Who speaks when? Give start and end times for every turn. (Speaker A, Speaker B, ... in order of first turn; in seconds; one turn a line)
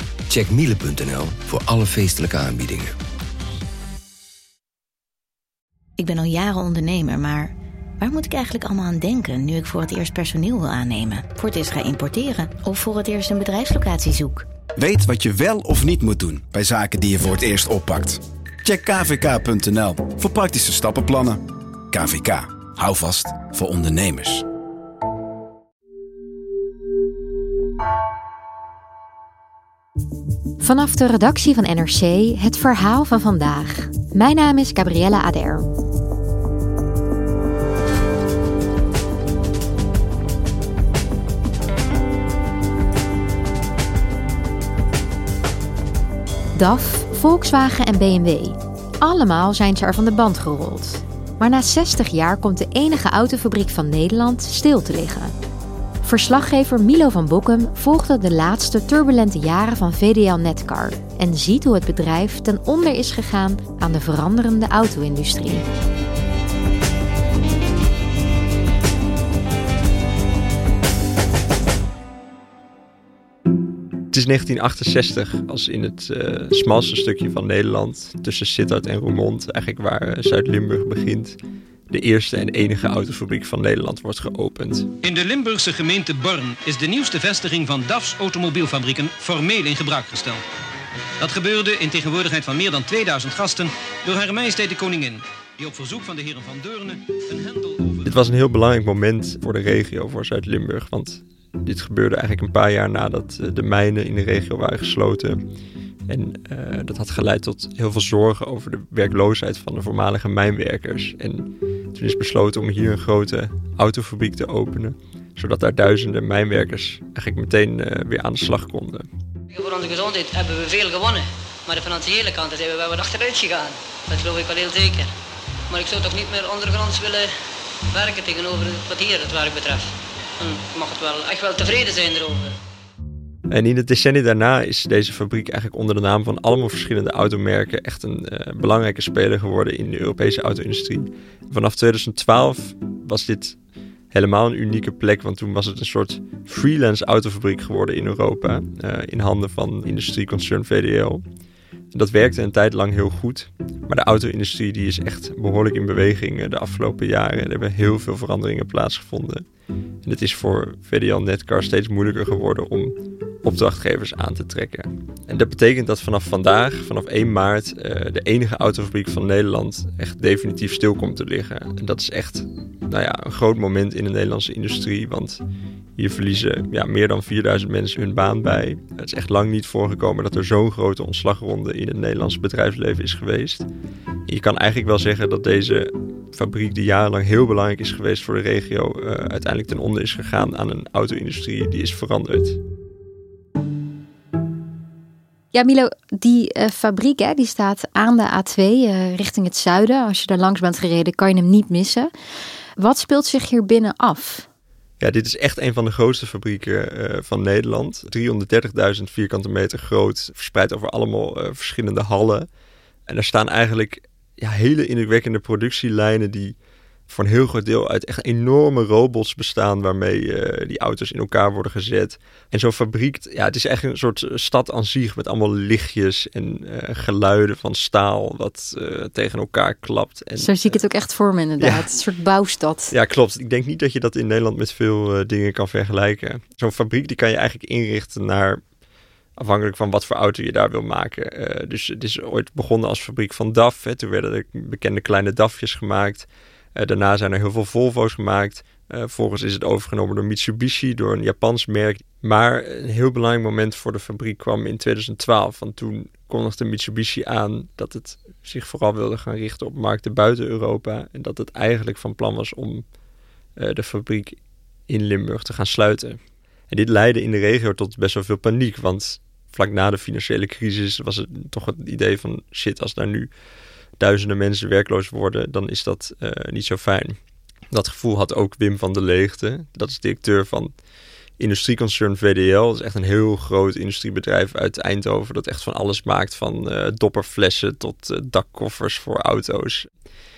Speaker A: 0.3-2.9
Speaker B: 6.0-14.5
Speaker C: 14.8-24.4
Speaker D: 30.6-35.6
Speaker D: 46.5-55.3
Speaker D: 56.0-65.6
Speaker E: 74.1-81.4
Speaker E: 81.9-84.9
Speaker F: 85.0-90.4
Speaker F: 91.2-98.0
Speaker E: 98.0-105.4
Speaker E: 106.1-119.1
Speaker G: 119.5-125.1
Speaker G: 125.7-127.3
Speaker G: 127.9-132.6
Speaker E: 133.5-143.6
Speaker E: 144.1-151.2
Speaker E: 151.9-159.4
Speaker E: 160.0-175.4
Speaker E: 176.0-183.7
Speaker E: 184.3-192.6
Speaker D: 195.5-202.1
Speaker D: 202.8-204.4
Speaker E: 205.0-212.5
Speaker E: 213.1-216.6
Speaker E: 217.1-230.8
Speaker D: 230.4-232.9
Speaker E: 231.6-231.9
Speaker E: 232.9-238.6
Speaker E: 239.4-262.8
Speaker E: 263.6-266.2
Speaker E: 266.7-273.3
Speaker E: 274.0-277.2
Speaker E: 277.7-280.7
Speaker E: 281.4-289.9